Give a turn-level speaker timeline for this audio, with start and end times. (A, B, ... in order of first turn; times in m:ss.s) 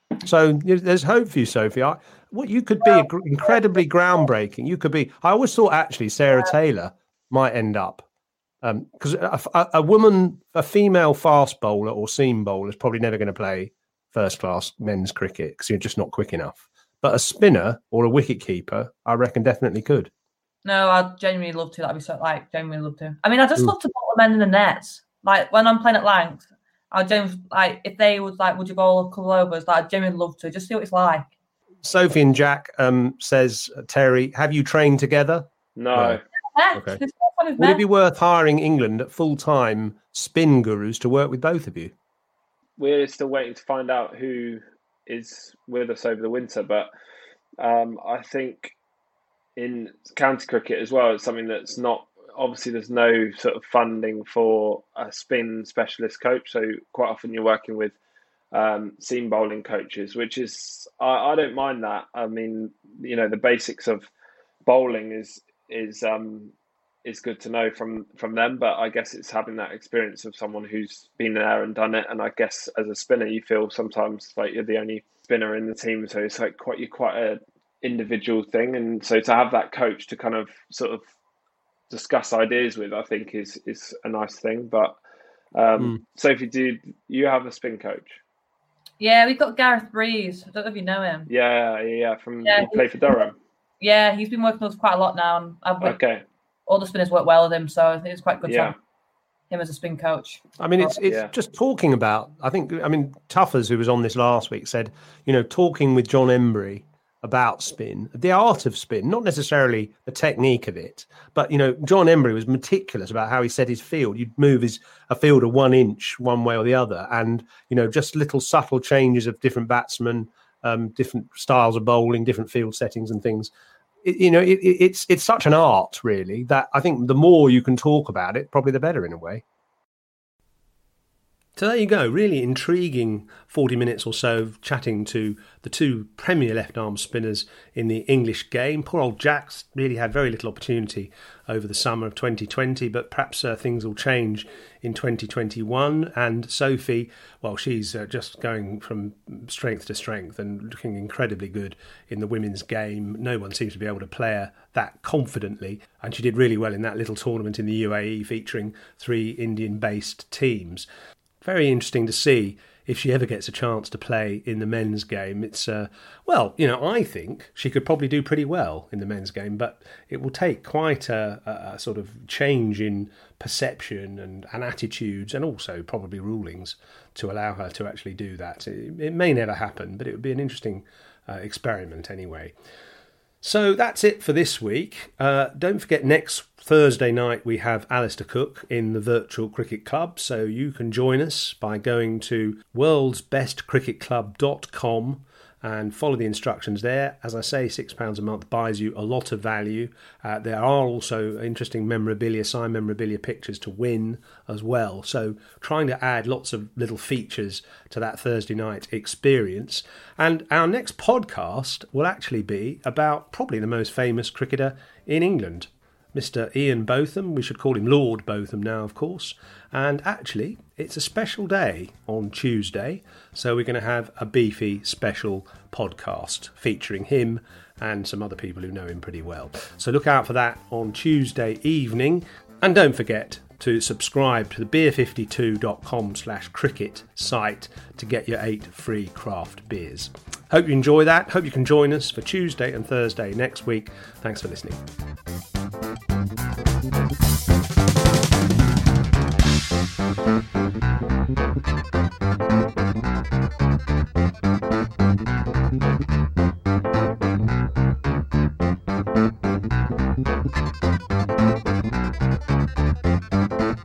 0:00.2-0:08.0 A
0:08.6-0:20.1 A
0:20.6-0:31.3 B
0:31.8-0:36.2 A
0:35.8-0:36.2 C
0:36.5-0:37.8 B
0:36.7-0:37.0 A
0:37.6-0:41.9 A
0:42.8-0:46.9 C
0:47.6-0:48.7 C
0:49.6-0:58.0 C
0:58.5-1:04.1 C
1:04.6-1:06.5 C
1:07.0-1:21.0 C
1:21.9-1:25.0 C
1:25.5-1:28.2 C
1:29.0-1:31.3 B
1:31.3-1:33.4 C
1:32.4-1:32.9 B
1:33.8-1:36.0 B
1:35.8-1:36.2 C
1:36.7-1:38.7 B
1:38.4-1:38.7 C
1:39.5-1:41.0 B
1:40.6-2:03.5 A
1:41.0-1:41.3 C
2:04.0-2:09.4 A
2:11.6-2:40.9 A
2:41.4-3:02.5 A
3:03.4-4:04.8 A